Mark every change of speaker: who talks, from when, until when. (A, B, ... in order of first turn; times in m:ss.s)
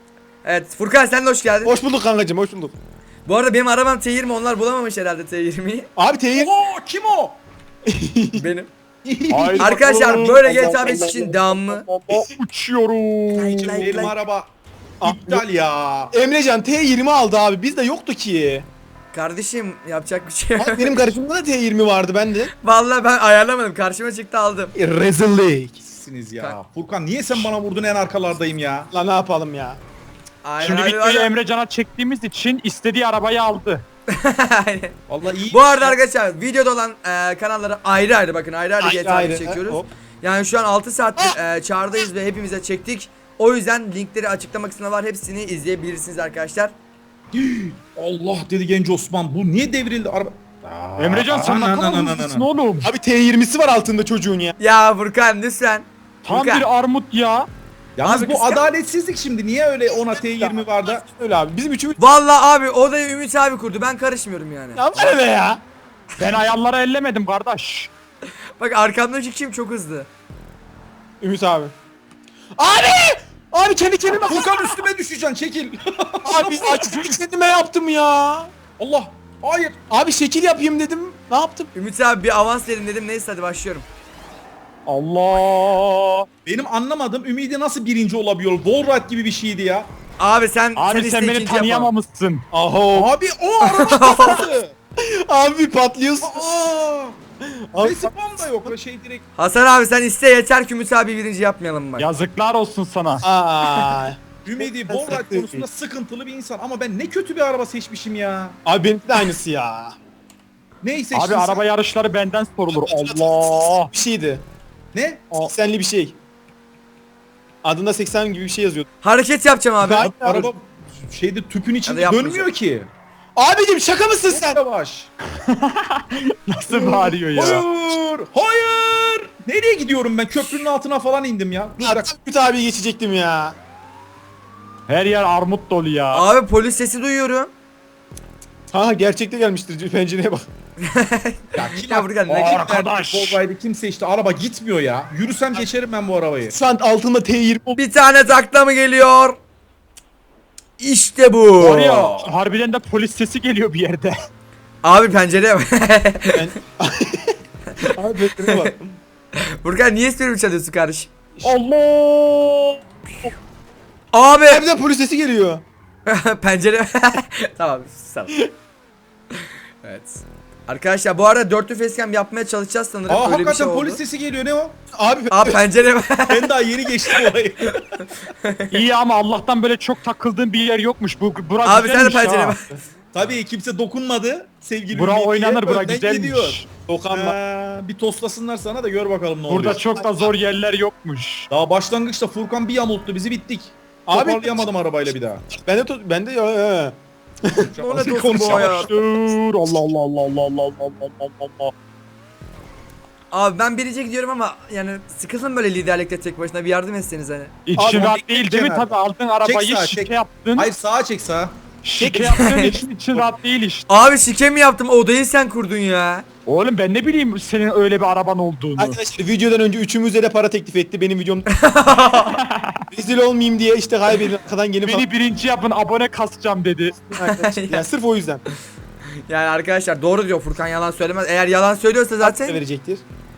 0:00.4-0:01.7 A
0:01.6-0:02.7 B
0:03.2-0:05.9 A
0:06.0-0:06.5 B
0:06.3-0:07.4 C
0:07.9-0:08.4 B
0:08.4-0:08.7 A
0:09.0-0:10.3 C
0:09.3-0:11.2 D
0:09.6-0:11.8 A
0:10.0-0:12.3 B
0:12.0-0:14.0 D
0:13.3-0:14.1 A
0:13.6-0:14.5 C
0:15.0-0:15.4 B
0:15.0-0:16.1 C
0:16.1-0:18.7 B
0:19.1-0:21.0 A
0:20.6-0:22.5 B
0:22.6-0:24.7 A
0:24.7-0:25.8 B
0:25.8-0:28.9 C
0:28.9-0:29.8 B
0:30.4-0:31.3 A
0:30.6-0:33.8 D
0:34.1-0:34.9 A
0:35.1-0:36.0 C
0:35.5-0:46.7 A
0:38.8-0:39.9 B
0:47.3-0:52.4 C
0:51.0-0:52.9 D
0:52.8-0:54.6 B
0:54.6-0:56.6 A
0:56.2-0:57.5 D
0:58.0-1:01.0 C
0:58.0-0:58.7 A
1:00.1-1:02.0 B
1:02.0-1:05.2 A
1:04.7-1:05.6 B
1:06.2-1:07.9 D
1:08.6-1:10.1 A
1:11.2-1:11.7 B
1:12.6-1:14.8 B
1:14.2-1:17.1 C
1:16.2-1:18.5 B
1:18.8-1:19.8 C
1:19.9-1:21.7 B
1:21.7-1:23.8 A
1:24.8-1:26.3 D
1:26.4-1:29.9 C
1:30.2-1:31.9 A
1:30.8-1:32.4 D
1:32.5-1:33.1 B
1:32.9-1:34.6 C
1:33.6-1:34.4 A
1:34.0-1:34.6 B
1:35.2-1:36.5 B
1:36.2-1:37.2 C
1:37.7-1:38.7 B
1:37.8-1:39.2 C
1:39.4-1:42.1 A
1:42.0-1:43.2 D
1:43.2-1:45.6 B
1:44.4-1:48.6 C
1:48.6-1:50.0 B
1:50.8-1:51.6 C
1:51.1-1:53.9 D
1:52.7-1:54.4 B
1:54.9-1:55.3 C
1:55.3-1:56.2 B
1:57.6-1:58.9 B
1:59.0-2:00.1 A
1:59.8-2:00.5 B
2:00.0-2:02.9 C
2:01.8-2:02.5 A
2:03.4-2:04.6 B
2:04.3-2:05.1 C
2:05.5-2:07.6 D
2:06.7-2:12.1 C
2:11.8-2:13.6 B
2:14.9-2:16.2 D
2:16.1-2:17.5 A
2:18.7-2:20.4 B
2:20.8-2:22.7 A
2:21.5-2:26.5 C
2:22.3-2:23.4 D
2:26.5-2:27.8 B
2:27.8-2:29.4 A
2:30.8-2:32.0 A
2:31.6-2:34.1 D
2:34.8-2:36.4 A
2:36.3-2:37.3 B
2:37.9-2:38.9 B
2:38.4-2:38.7 A
2:39.4-2:41.1 A
2:41.4-2:43.3 D
2:44.1-2:44.6 A
2:44.5-2:45.6 B
2:46.0-2:48.3 A
2:49.3-2:54.0 A
2:53.1-2:54.8 C
2:54.9-2:55.6 B
2:55.3-2:56.5 A
2:56.3-2:58.0 C
2:58.0-2:58.8 A
2:58.7-3:02.6 D
3:01.6-3:02.8 A
3:03.1-3:06.6 C
3:04.9-3:06.7 D
3:06.9-3:07.4 B
3:07.1-3:09.8 C
3:09.5-3:11.5 D
3:10.0-3:10.3 B
3:11.5-3:15.4 C
3:14.1-3:14.7 B
3:15.5-3:17.7 B
3:17.6-3:18.9 C
3:17.8-3:18.9 A
3:18.4-3:21.7 D
3:23.3-3:27.5 A
3:27.6-3:30.7 D
3:27.8-3:28.1 B
3:27.8-3:33.3 C
3:31.8-3:33.9 D
3:32.4-3:32.6 A
3:33.9-3:36.2 A
3:36.4-3:39.0 D
3:38.8-3:41.5 B
3:41.6-3:42.4 A
3:42.4-3:42.7 D
3:42.9-3:45.1 B
3:44.8-3:47.0 D
3:47.0-3:48.4 B
3:47.2-3:47.8 A
3:49.3-3:52.6 A
3:52.2-3:53.0 B